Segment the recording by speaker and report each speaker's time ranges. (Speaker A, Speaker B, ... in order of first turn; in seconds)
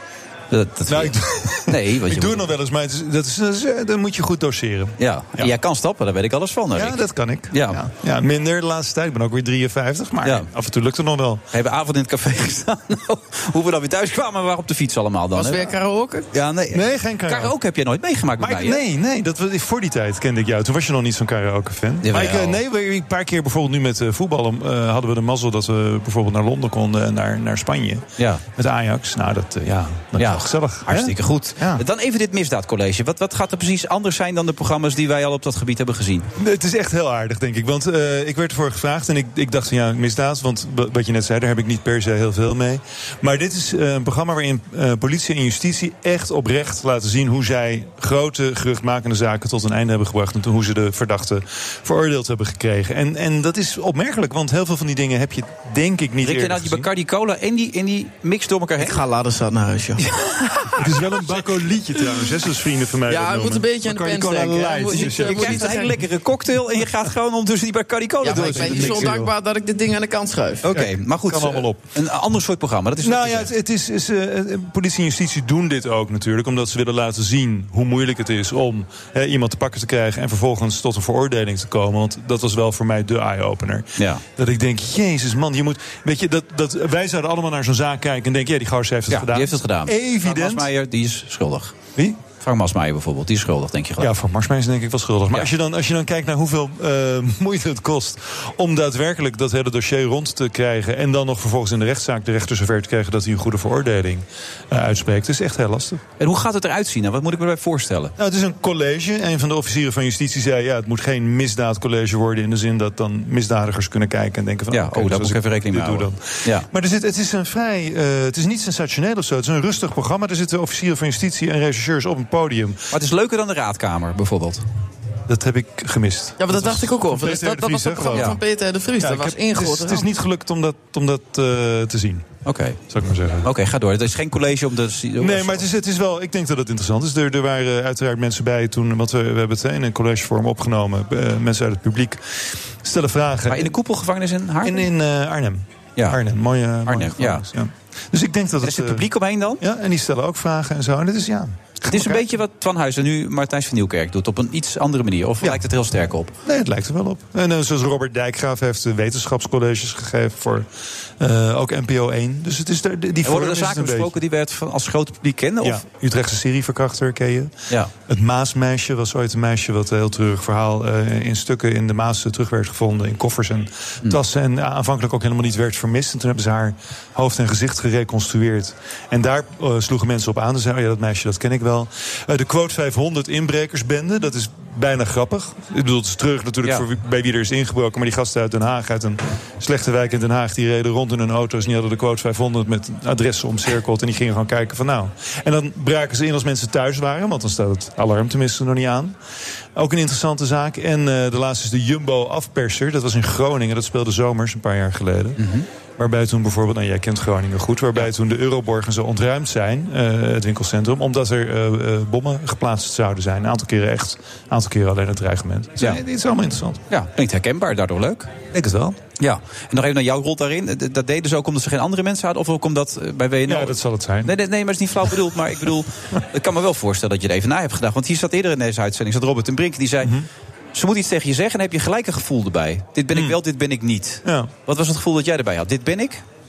Speaker A: 0.5-2.5, 5.0-7.8, 10.2-10.5, 11.5-15.7, 16.3-18.8, 22.0-22.6, 30.2-36.3, 56.2-59.0, 64.9-69.2, 70.6-73.5, 84.0-84.2, 89.1-91.8, 92.4-94.1, 106.2-108.1, 114.7-116.7, 122.9-124.6, 132.4-132.8, 133.4-135.7, 143.5-144.9, 146.8-147.4, 148.6-149.6, 151.9-156.3, 163.2-165.8, 205.4-205.7, 216.9-218.3, 219.2-230.1, 230.7-236.2
Speaker B: 0.9-5.5, 6.7-11.4, 16.7-17.6, 18.4-31.8, 36.4-56.9, 60.8-65.9, 68.3-69.3, 70.7-71.8, 73.0-90.7, 92.0-92.2, 94.0-106.0, 108.2-122.8, 125.3-128.4, 129.0-132.2, 132.9-133.5, 135.2-142.2, 142.8-143.7, 144.6-149.1, 149.6-152.3, 156.4-164.2, 165.6-167.5, 168.1-199.2, 199.8-205.4, 206.0-216.8, 218.5-219.0, 223.4-224.3, 233.1-233.4, 234.2-234.5
Speaker C: 15.3-16.3, 58.8-60.8, 63.0-66.0, 68.2-70.6, 126.4-130.1